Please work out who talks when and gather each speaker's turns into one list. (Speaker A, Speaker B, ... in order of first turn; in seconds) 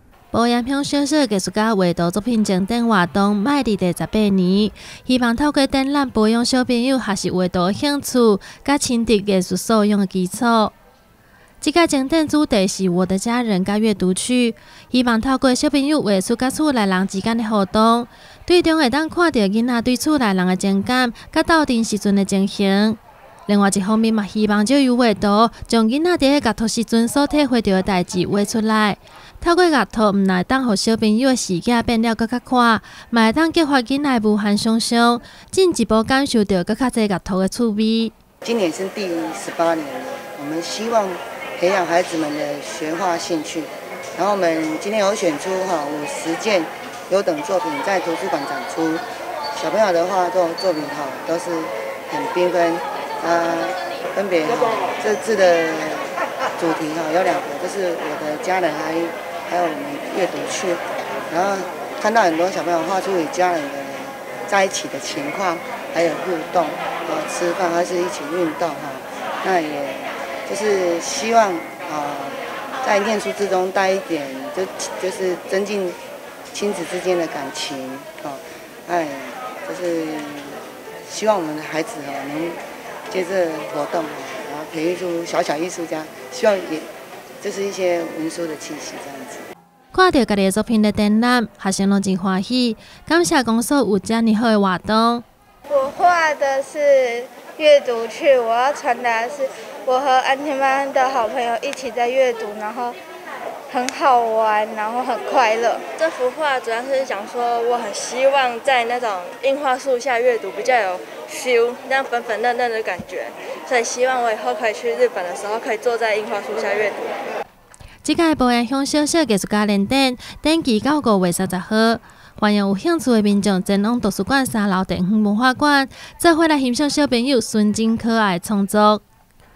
Speaker A: 0.3-10.7, 11.6-38.1, 89.9-95.2, 118.0-129.0
Speaker B: 38.4-76.0, 76.5-86.9, 87.4-89.5
Speaker C: 95.7-103.0, 103.7-105.8
Speaker D: 106.0-117.1